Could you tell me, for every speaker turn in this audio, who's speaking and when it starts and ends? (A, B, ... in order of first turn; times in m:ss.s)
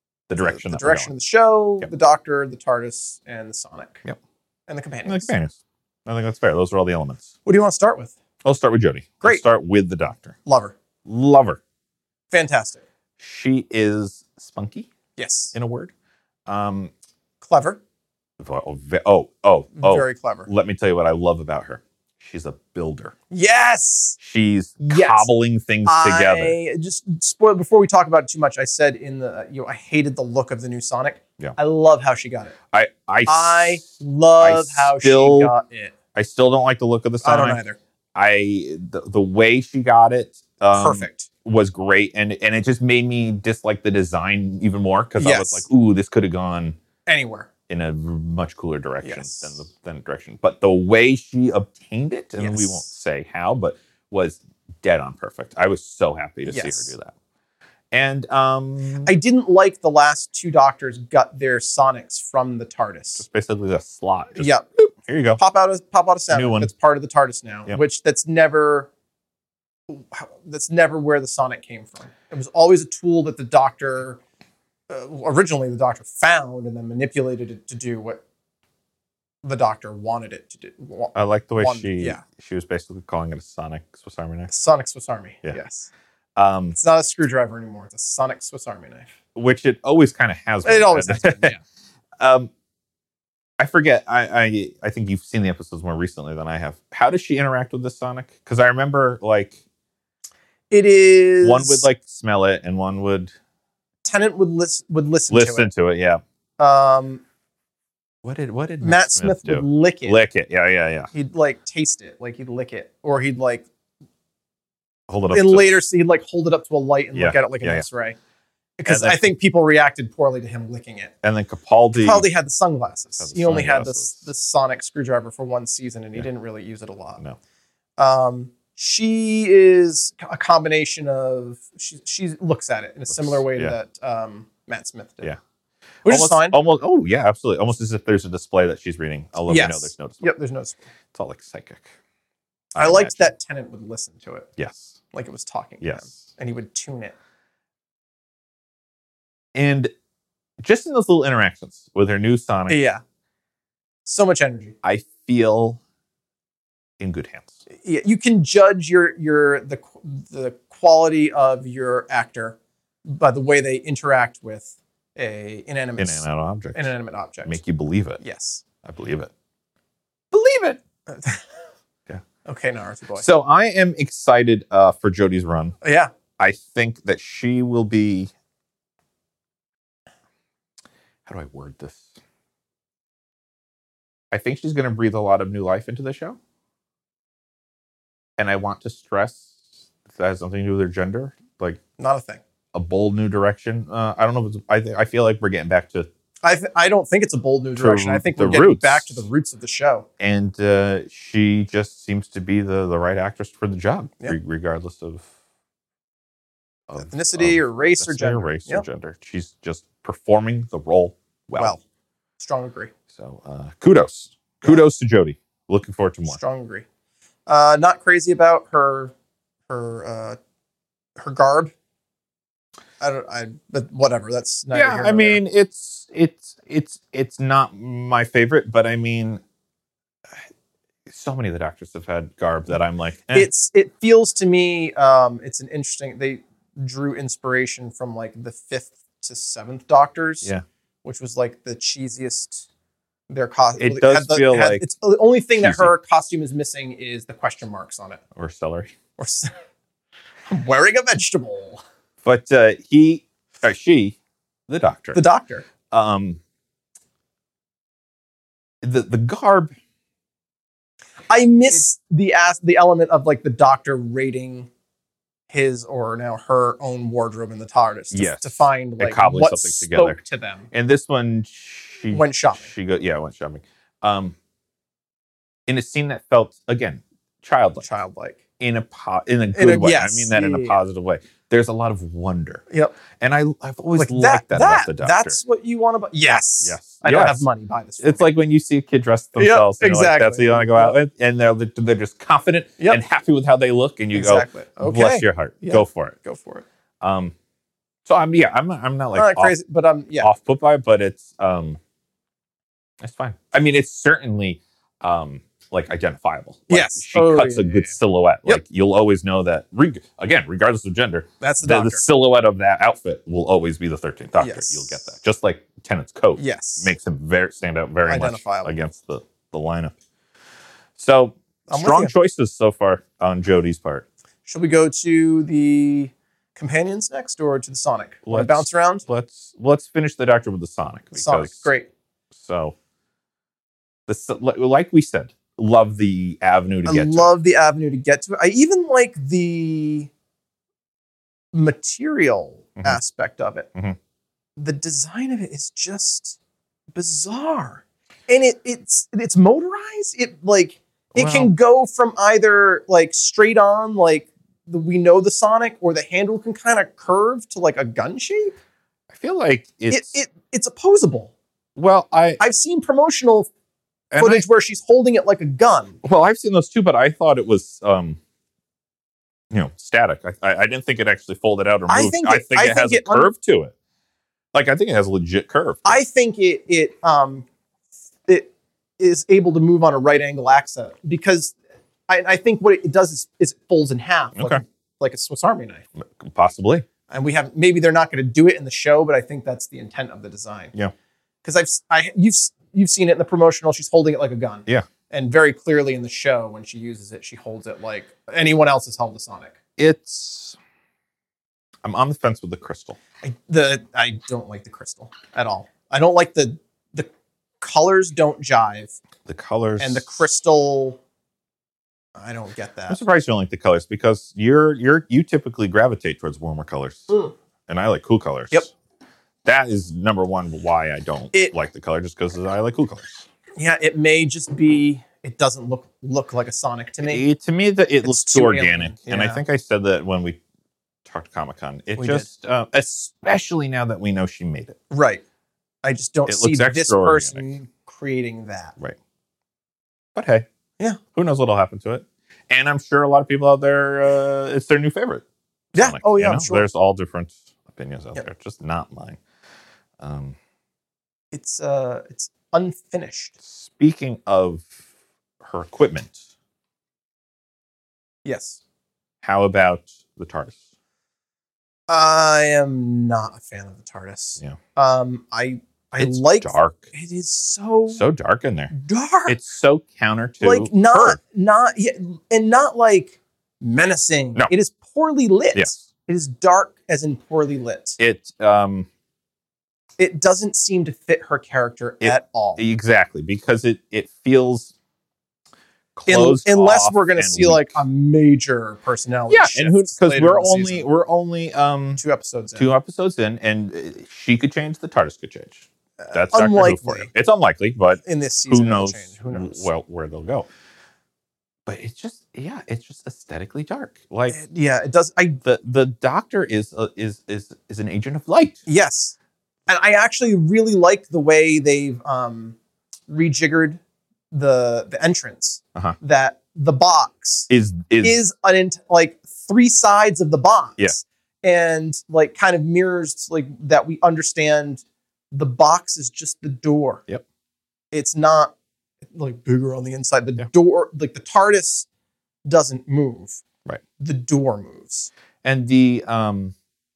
0:00.3-0:01.1 A
0:00.4-0:04.0 B
0:04.7-0:05.3 B
0:05.0-0:07.3 A
0:07.4-0:08.1 B
0:08.4-0:10.4 A
0:10.4-0:10.7 B
0:11.0-0:11.6 A
0:12.3-0:12.8 B
0:13.2-0:14.9 A
0:15.2-0:15.5 B
0:15.5-0:15.9 A
0:16.5-0:16.9 A
0:17.4-0:17.8 B
0:18.4-0:23.1 A
0:19.8-0:20.5 B
0:23.3-0:24.2 B
0:24.2-0:26.6 A
0:24.9-0:25.3 B
0:25.8-0:32.6 B
0:32.7-0:33.8 A
0:33.2-0:35.9 B
0:34.4-0:35.5 A
0:36.1-0:37.6 A
0:37.2-0:37.8 B
0:38.1-0:46.8 A
0:40.7-0:41.3 B
0:45.2-0:45.6 B
0:47.1-0:47.5 B
0:47.7-0:57.1 A
0:49.0-0:49.6 B
0:52.4-0:52.8 B
0:56.4-0:56.9 B
0:57.9-0:59.1 A
0:59.0-1:03.2 B
1:03.2-1:05.4 A
1:04.4-1:04.6 B
1:05.4-1:08.9 B
1:06.3-1:06.7 A
1:09.9-1:14.2 B
1:14.9-1:18.2 B
1:19.4-1:22.2 B
1:21.1-1:24.5 A
1:24.5-1:25.9 B
1:26.4-1:26.8 A
1:26.7-1:29.1 B
1:29.3-1:31.5 A
1:30.6-1:31.6 B
1:32.2-1:32.5 A
1:33.6-1:39.6 A
1:40.7-1:41.9 B
1:41.4-1:43.3 A
1:44.0-1:45.7 B
1:45.3-1:46.2 A
1:46.6-1:47.2 B
1:48.2-1:51.1 A
1:48.8-1:50.2 B
1:51.1-1:53.6 B
1:55.1-1:55.7 A
1:55.3-1:58.2 B
1:57.1-1:57.9 A
1:58.8-2:01.1 B
1:58.8-1:59.3 A
2:01.2-2:02.2 A
2:01.9-2:07.2 B
2:03.2-2:04.3 A
2:08.0-2:15.3 B
2:13.1-2:13.8 A
2:16.0-2:16.6 B
2:16.0-2:20.3 A
2:19.5-2:20.9 B
2:21.1-2:21.9 A
2:22.8-2:23.3 A
2:22.8-2:24.5 B
2:24.6-2:25.0 A
2:25.1-2:27.1 B
2:25.8-2:26.2 A
2:29.5-2:29.9 A
2:30.6-2:32.8 A
2:32.7-2:33.0 B
2:34.0-2:34.8 B
2:34.8-2:35.8 A
2:37.0-2:37.6 A
2:37.8-2:47.6 B
2:46.0-2:46.9 A
2:47.4-2:48.2 A
2:48.2-2:48.6 B
2:48.8-2:49.3 A
2:50.3-2:50.8 A
2:51.1-2:51.5 B
2:52.4-2:53.3 B
2:53.2-2:55.8 A
2:55.8-2:56.1 B
2:56.4-2:58.3 A
3:01.2-3:02.1 A
3:04.3-3:06.4 A
3:08.4-3:11.8 A
3:12.0-3:12.4 B
3:12.7-3:16.1 A
3:16.4-3:20.1 B
3:17.7-3:19.3 A
3:20.2-3:25.3 A
3:26.9-3:31.8 A
3:27.0-3:28.8 B
3:32.4-3:32.9 B
3:33.1-3:36.4 A
3:36.3-3:36.8 B
3:37.5-3:39.1 B
3:39.7-3:40.4 B
3:41.2-3:41.7 B
3:43.0-3:45.4 B
3:44.7-3:49.4 A
3:51.1-3:53.5 A
3:53.3-4:00.5 B
4:01.0-4:02.7 B
4:03.3-4:08.2 B
4:03.8-4:04.8 A
4:05.6-4:05.9 A
4:08.3-4:08.9 A
4:09.2-4:09.5 B
4:10.5-4:11.8 B
4:12.2-4:14.2 A
4:14.7-4:15.2 A
4:15.1-4:15.6 B
4:15.9-4:16.4 A
4:18.8-4:19.7 A
4:21.3-4:24.7 B
4:25.5-4:30.7 B
4:28.1-4:30.2 A
4:30.7-4:34.4 A
4:32.1-4:32.7 B
4:35.7-4:37.9 A
4:37.8-4:38.4 B
4:38.6-4:42.6 A
4:39.5-4:40.8 B
4:42.7-4:43.0 B
4:43.2-4:45.4 A
4:44.0-4:48.3 B
4:46.6-4:47.4 A
4:48.0-4:56.2 A
4:49.4-4:51.0 B
4:54.1-4:56.6 B
4:57.0-4:57.3 A
4:58.0-4:59.5 A
4:59.1-5:00.3 B
5:00.2-5:01.8 A
5:03.0-5:20.0 A
5:06.7-5:08.6 B
5:11.4-5:12.0 B
5:14.4-5:15.1 B
5:16.4-5:16.9 B
5:18.0-5:18.7 B
5:21.0-5:24.0 A
5:21.7-5:22.1 B
5:24.4-5:29.0 B
5:28.2-5:31.7 A
5:31.1-5:31.9 B
5:32.3-5:32.7 A
5:34.1-5:37.3 A
5:36.8-5:40.1 B
5:41.5-5:43.7 B
5:44.6-5:46.4 B
5:46.9-5:58.6 B
5:51.1-5:51.5 A
5:59.1-6:00.2 A
5:59.9-6:01.3 B
6:01.8-6:02.4 A
6:02.4-6:03.5 B
6:04.1-6:04.4 A
6:04.1-6:06.0 B
6:06.0-6:08.2 A
6:09.5-6:13.7 A
6:11.9-6:13.3 B
6:14.5-6:16.0 A
6:15.8-6:17.4 B
6:18.3-6:21.5 B
6:22.1-6:25.8 B
6:24.4-6:24.6 A
6:26.0-6:26.8 A
6:27.1-6:30.7 B
6:31.4-6:39.5 B
6:39.8-6:40.6 A
6:41.8-6:43.0 A
6:43.2-6:47.1 B
6:47.6-6:49.0 B
6:49.2-6:50.2 A
6:49.8-6:51.0 B
6:52.2-6:53.0 B
6:52.9-6:57.1 A
6:57.7-6:58.7 A
6:59.4-7:03.2 A
7:03.6-7:07.2 B
7:07.0-7:10.4 A
7:08.0-7:09.4 B
7:11.0-7:14.8 A
7:12.0-7:12.3 B
7:14.9-7:15.2 B
7:15.8-7:18.7 B
7:16.3-7:17.4 A
7:20.1-7:20.4 A
7:21.1-7:29.2 A
7:25.7-7:26.6 B
7:30.0-7:30.4 A
7:31.3-7:33.3 B
7:33.4-7:34.8 A
7:35.4-7:36.2 A
7:38.2-7:38.6 B
7:39.2-7:40.6 A
7:41.9-7:48.0 B
7:46.0-7:46.9 A
7:47.9-7:48.7 A
7:48.7-7:49.4 B
7:49.3-7:51.2 A
7:50.4-7:58.0 B
7:55.5-7:55.8 A
7:58.0-7:58.9 A
8:00.0-8:02.6 B
8:02.0-8:04.7 A
8:05.9-8:07.8 A
8:06.1-8:10.8 B
8:09.3-8:12.0 A
8:12.0-8:12.7 B
8:12.6-8:20.5 A
8:16.0-8:17.1 B
8:18.0-8:19.7 B
8:21.6-8:24.4 A
8:24.3-8:25.4 B
8:25.4-8:28.6 A
8:28.7-8:29.1 B
8:29.7-8:32.6 B
8:33.1-8:33.8 B
8:34.3-8:37.5 B
8:37.5-8:38.2 A
8:38.0-8:47.0 B
8:47.9-8:48.5 B
8:49.1-8:51.9 B
8:52.4-8:53.4 B
8:54.0-8:55.1 B
8:55.4-8:56.5 A